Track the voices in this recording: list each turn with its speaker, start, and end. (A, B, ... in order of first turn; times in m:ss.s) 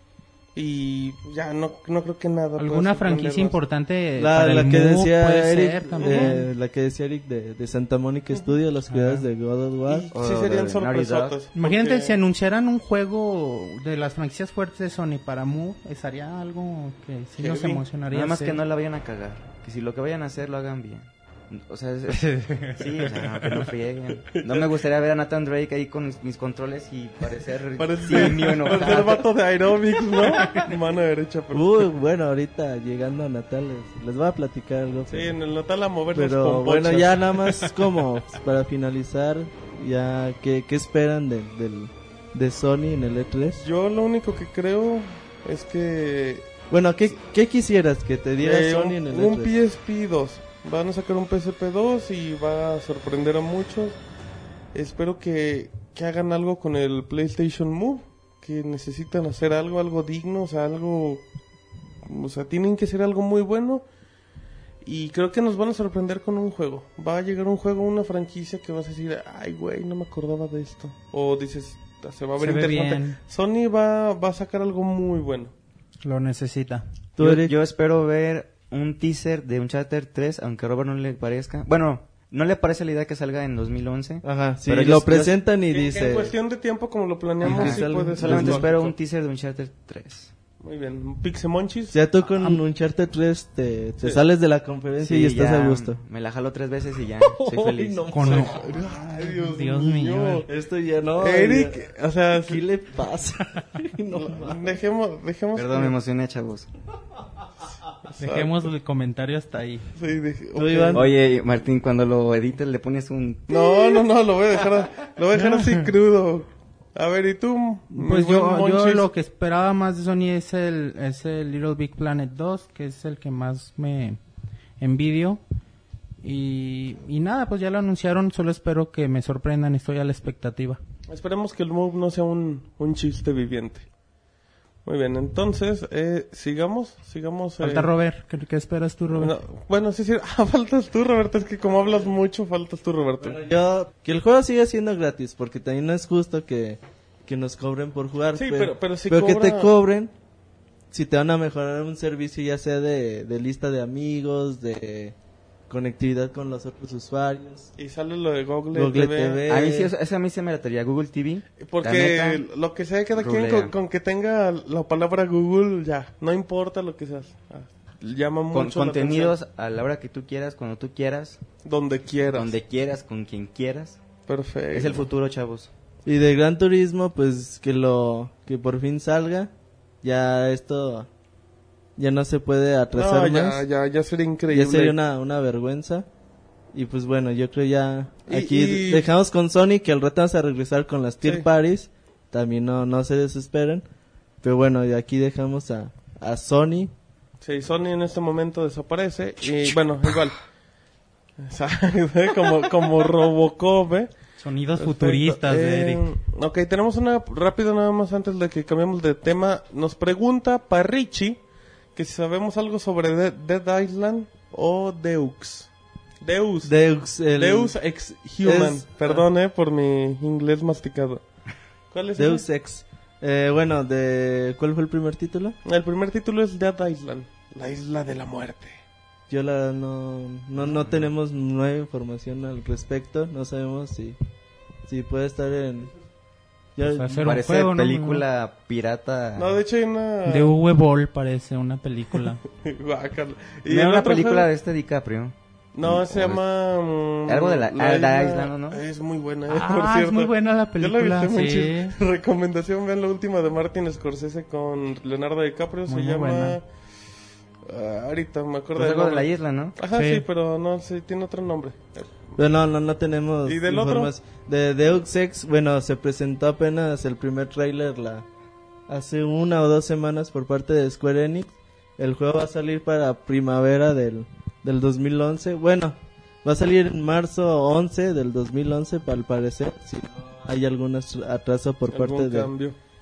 0:00.6-0:03.6 A
0:02.6-0:06.5 B
0:04.2-0:10.1 C
0:06.0-0:06.4 A
0:08.9-0:09.3 B
0:09.9-0:12.2 A
0:10.1-0:11.4 D
0:11.6-0:18.6 B
0:17.4-0:17.8 A
0:18.1-0:29.3 D
0:22.2-0:23.6 B
0:24.3-0:24.7 A
0:27.8-0:31.8 A
0:30.2-0:30.7 B
0:31.5-0:35.4 C
0:35.1-0:37.4 A
0:36.1-0:43.7 C
0:43.6-0:46.5 A
0:46.7-0:49.6 C
0:48.4-0:54.0 A
0:54.7-1:01.2 A
1:02.0-1:03.8 A
1:04.8-1:15.5 A
1:12.4-1:13.2 B
1:16.0-1:16.8 B
1:17.2-1:17.5 C
1:17.2-1:25.4 D
1:24.2-1:26.3 C
1:25.7-1:28.9 A
1:27.4-1:28.8 C
1:27.4-1:30.3 D
1:30.6-1:32.0 A
1:31.9-1:36.0 C
1:35.0-1:38.1 D
1:37.3-1:38.6 C
1:38.1-1:40.4 B
1:38.2-1:40.5 A
1:40.5-1:44.8 C
1:41.2-1:42.6 A
1:44.1-1:45.9 A
1:45.6-1:46.7 D
1:48.1-1:48.5 A
1:48.2-1:49.9 B
1:50.0-1:51.1 A
1:50.6-1:51.1 C
1:50.9-1:53.9 D
1:53.5-1:59.1 A
1:55.4-1:55.8 B
1:57.9-2:04.2 B
2:04.8-2:05.4 B
2:06.2-2:10.8 B
2:11.1-2:13.8 A
2:14.8-2:17.9 A
2:17.6-2:19.4 B
2:19.1-2:23.4 A
2:23.2-2:30.1 C
2:28.4-2:29.7 A
2:30.9-2:35.2 C
2:35.7-2:37.7 C
2:37.8-2:39.4 A
2:38.7-2:39.9 C
2:39.5-2:42.4 D
2:41.6-2:49.4 A
2:43.2-2:43.7 D
2:48.5-2:51.4 D
2:51.6-2:52.6 A
2:52.3-2:54.0 D
2:54.3-2:55.1 A
2:54.7-2:55.7 D
2:56.1-3:01.1 C
3:02.0-3:03.6 C
3:02.9-3:05.0 A
3:04.5-3:06.1 C
3:06.7-3:13.8 C
3:08.3-3:09.1 A
3:14.4-3:16.9 C
3:17.4-3:20.4 A
3:21.4-3:24.1 A
3:24.4-3:26.0 B
3:24.8-3:31.4 A
3:32.0-3:35.7 A
3:36.2-3:36.7 A
3:36.6-3:37.8 C
3:37.4-3:41.2 A
3:38.4-3:39.3 C
3:41.9-3:42.4 A
3:42.2-3:45.6 C
3:45.6-3:48.8 A
3:49.3-3:54.2 C
3:50.6-3:51.1 D
3:54.9-3:55.9 C
3:56.8-3:57.3 C
3:56.8-3:58.2 B
3:57.2-3:59.6 D
3:59.4-4:00.5 A
4:00.3-4:02.4 B
4:02.6-4:04.5 A
4:03.7-4:06.4 D
4:05.7-4:16.6 A
4:07.3-4:08.8 D
4:09.5-4:12.0 B
4:15.9-4:16.6 B
4:17.7-4:22.4 A
4:18.8-4:19.8 D
4:19.9-4:20.3 B
4:22.4-4:28.2 C
4:23.4-4:24.1 A
4:28.9-4:42.5 C
4:41.9-4:42.8 A